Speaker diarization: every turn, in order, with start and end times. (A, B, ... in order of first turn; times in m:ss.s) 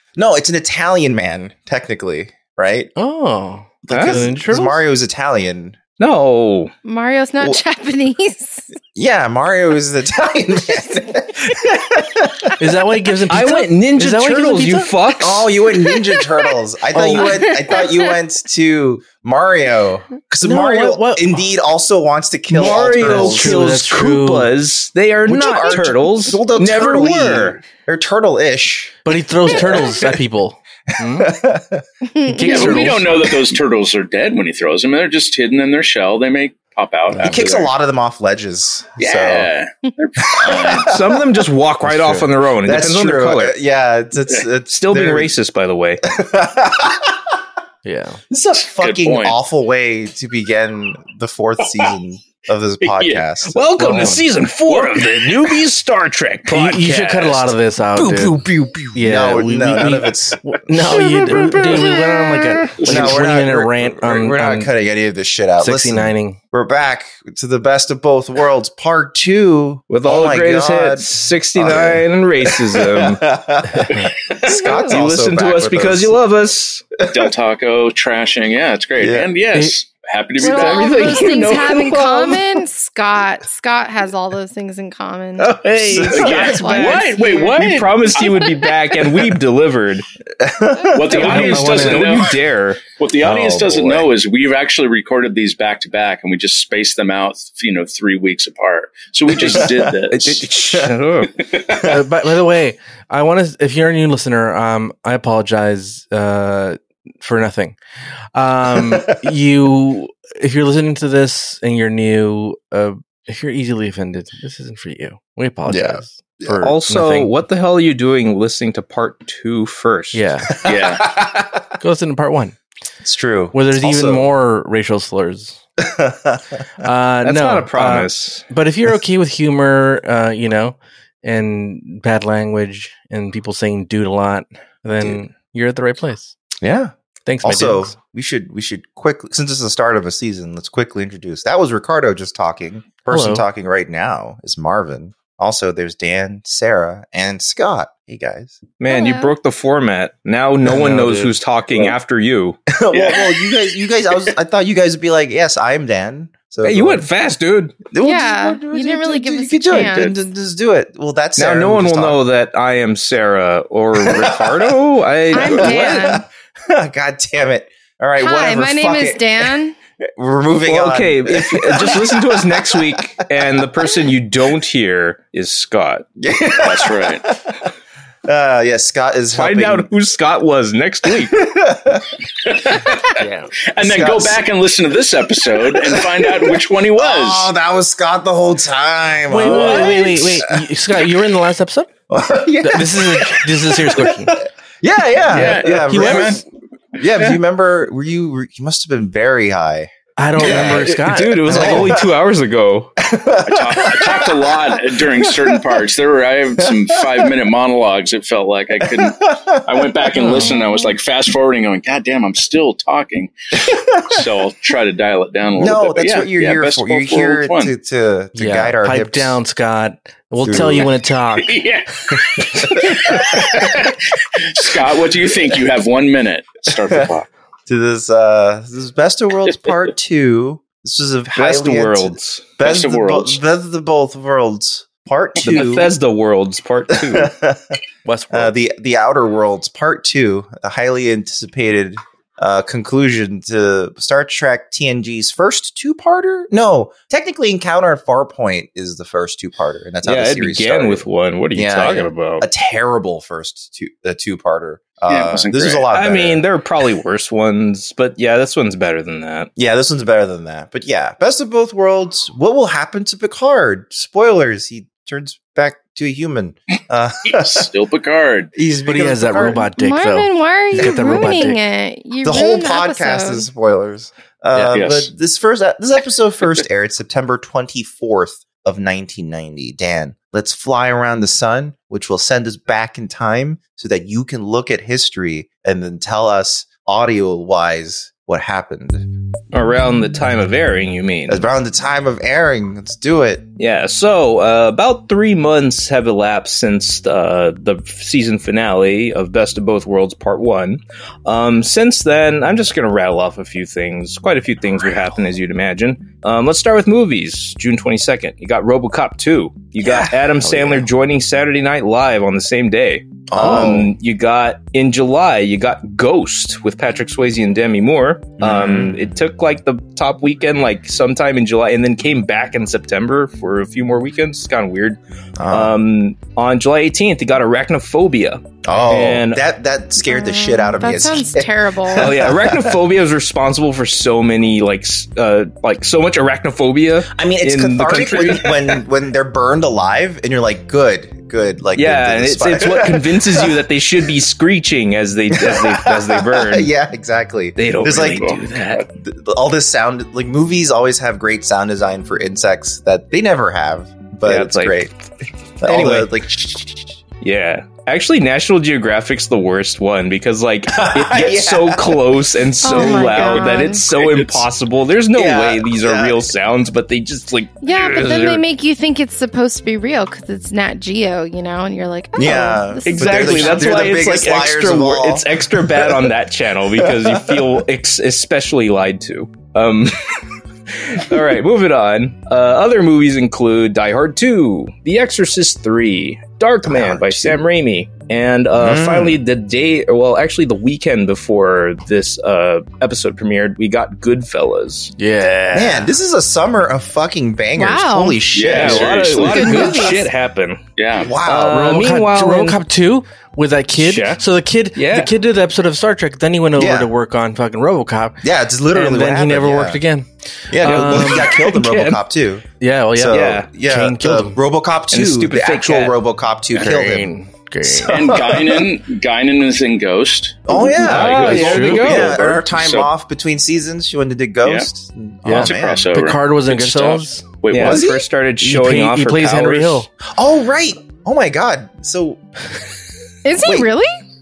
0:00.2-0:02.9 A
0:03.0-0:04.8 B
0:03.8-0:05.8 A
0:03.9-0:04.3 C
0:06.0-0:06.7 C
0:06.8-0:08.7 D
0:08.9-0:12.5 A
0:12.6-0:14.9 B
0:13.3-0:15.5 C
0:15.2-0:23.6 A
0:16.0-0:16.3 D
0:17.1-0:18.1 D
0:20.4-0:21.4 B
0:22.5-0:27.6 C
0:22.5-0:24.5 B
0:25.2-0:30.1 A
0:29.0-0:31.3 B
0:31.1-0:31.8 A
0:32.1-0:32.8 D
0:32.2-0:33.3 B
0:32.4-0:37.7 E
0:37.2-0:39.5 A
0:39.0-0:40.9 E
0:40.2-0:41.4 A
0:40.6-0:43.6 C
0:41.8-0:42.3 B
0:42.6-0:45.3 A
0:44.7-0:46.0 C
0:46.0-0:47.2 A
0:47.8-0:48.2 B
0:48.3-0:53.6 A
0:48.6-0:49.4 E
0:52.8-0:53.2 E
0:53.5-0:57.5 C
0:53.8-0:54.2 B
0:54.7-0:55.3 E
0:56.5-0:58.4 B
0:58.0-1:02.0 A
0:58.9-1:04.7 B
1:02.7-1:16.2 A
1:02.8-1:03.2 E
1:05.6-1:06.4 B
1:09.9-1:13.2 C
1:13.9-1:14.7 E
1:14.5-1:16.8 C
1:17.1-1:21.4 E
1:19.0-1:19.3 A
1:20.4-1:25.6 D
1:20.4-1:22.6 C
1:25.4-1:30.0 C
1:25.9-1:26.9 A
1:26.1-1:28.2 E
1:26.1-1:27.6 D
1:28.2-1:28.7 D
1:30.4-1:31.5 A
1:30.9-1:32.3 E
1:31.1-1:32.8 C
1:31.1-1:32.1 B
1:33.0-1:40.4 E
1:33.2-1:34.1 A
1:39.4-1:39.9 A
1:39.5-1:41.4 C
1:41.7-1:42.0 A
1:41.7-1:47.8 B
1:48.3-1:57.3 B
1:48.7-1:49.2 A
1:55.7-1:56.7 A
1:56.6-2:00.2 C
2:00.1-2:00.6 B
2:00.5-2:01.6 A
2:00.6-2:01.1 E
2:01.8-2:02.6 B
2:03.0-2:04.3 A
2:03.5-2:05.6 B
2:05.8-2:06.6 A
2:06.8-2:16.4 B
2:07.2-2:08.4 C
2:16.6-2:28.6 A
2:17.2-2:17.9 B
2:23.1-2:23.4 B
2:28.8-2:32.6 C
2:28.9-2:29.3 D
2:30.6-2:31.3 B
2:32.7-2:37.0 A
2:32.9-2:33.5 E
2:36.6-2:37.8 C
2:37.9-2:42.2 A
2:38.0-2:40.1 D
2:39.7-2:40.1 E
2:41.4-2:46.2 C
2:44.0-2:44.7 A
2:45.3-2:46.2 D
2:45.3-2:53.5 A
2:48.2-2:49.7 D
2:50.6-2:56.0 C
2:56.2-2:57.7 A
2:56.6-2:57.2 E
2:58.2-2:59.9 A
2:59.3-3:01.5 C
3:01.2-3:02.1 A
3:02.4-3:03.2 E
3:03.2-3:03.5 B
3:03.7-3:07.5 E
3:03.8-3:04.4 A
3:05.6-3:10.6 A
3:09.3-3:11.9 B
3:09.4-3:10.2 E
3:12.1-3:16.4 A
3:12.6-3:14.4 B
3:15.3-3:16.4 E
3:15.9-3:16.4 B
3:16.9-3:22.1 A
3:20.2-3:21.9 B
3:20.4-3:22.9 C
3:23.0-3:25.8 A
3:23.4-3:37.7 E
3:26.6-3:27.3 A
3:28.8-3:30.3 A
3:30.2-3:30.5 B
3:30.3-3:30.9 D
3:35.6-3:39.4 A
3:38.4-3:41.6 B
3:40.4-3:40.9 A
3:41.4-3:47.3 E
3:42.3-3:43.7 A
3:47.7-3:55.9 A
3:51.3-3:52.5 C
3:52.6-3:53.4 E
3:55.4-3:57.3 C
3:56.9-3:57.8 A
3:58.0-3:58.5 B
3:58.3-4:16.5 A
4:10.0-4:12.4 C
4:15.1-4:15.8 E
4:15.9-4:19.5 C
4:19.6-4:27.7 A
4:27.3-4:28.5 E
4:28.6-4:29.6 A
4:28.8-4:31.6 B
4:29.6-4:33.5 D
4:30.8-4:31.5 A
4:32.2-4:49.0 A
4:34.7-4:35.1 E
4:49.5-4:51.4 C
4:51.3-4:53.4 A
4:53.6-5:29.4 C
5:09.8-5:10.8 A
5:13.3-5:13.9 A
5:18.4-5:19.1 A
5:25.4-5:25.7 A
5:28.6-5:32.8 A
5:30.0-5:32.2 D
5:32.0-5:38.8 C
5:37.1-5:43.6 A
5:41.8-5:46.7 C
5:45.3-5:54.9 A
5:47.6-5:48.8 C
5:48.1-5:48.8 E
5:54.2-5:54.8 C
5:55.6-5:57.0 A
5:55.6-5:56.1 C
5:57.2-6:08.4 C
6:00.7-6:02.0 A
6:02.6-6:03.8 D
6:02.7-6:03.3 A
6:05.1-6:06.2 A
6:07.6-6:13.9 D
6:12.2-6:15.3 A
6:12.8-6:20.2 C
6:15.8-6:16.1 A
6:16.8-6:17.4 A
6:20.8-6:34.9 C
6:26.6-6:27.4 A
6:28.5-6:29.2 A
6:35.0-6:35.9 B
6:35.5-6:39.6 A
6:37.6-6:38.3 D
6:38.3-6:40.0 E
6:38.4-6:40.6 C
6:39.2-6:40.1 D
6:40.8-6:41.1 E
6:41.0-6:41.7 A
6:41.1-6:42.6 C
6:41.4-6:50.0 B
6:43.8-6:44.2 C
6:44.7-6:45.1 C
6:46.6-6:46.9 A
6:48.2-6:49.8 A
6:50.5-6:57.1 A
6:50.6-6:51.6 B
6:50.6-6:52.0 C
6:52.6-6:54.4 B
6:53.1-6:53.5 C
6:54.9-6:56.0 C
6:56.5-6:58.0 B
6:57.6-6:58.7 A
6:57.9-7:02.9 E
7:00.4-7:06.0 A
7:00.8-7:02.4 C
7:00.8-7:01.8 B
7:05.2-7:07.3 B
7:05.3-7:07.9 E
7:07.5-7:09.8 C
7:07.5-7:08.0 A
7:08.4-7:09.9 B
7:10.1-7:12.2 A
7:13.2-7:13.9 D
7:13.4-7:13.7 A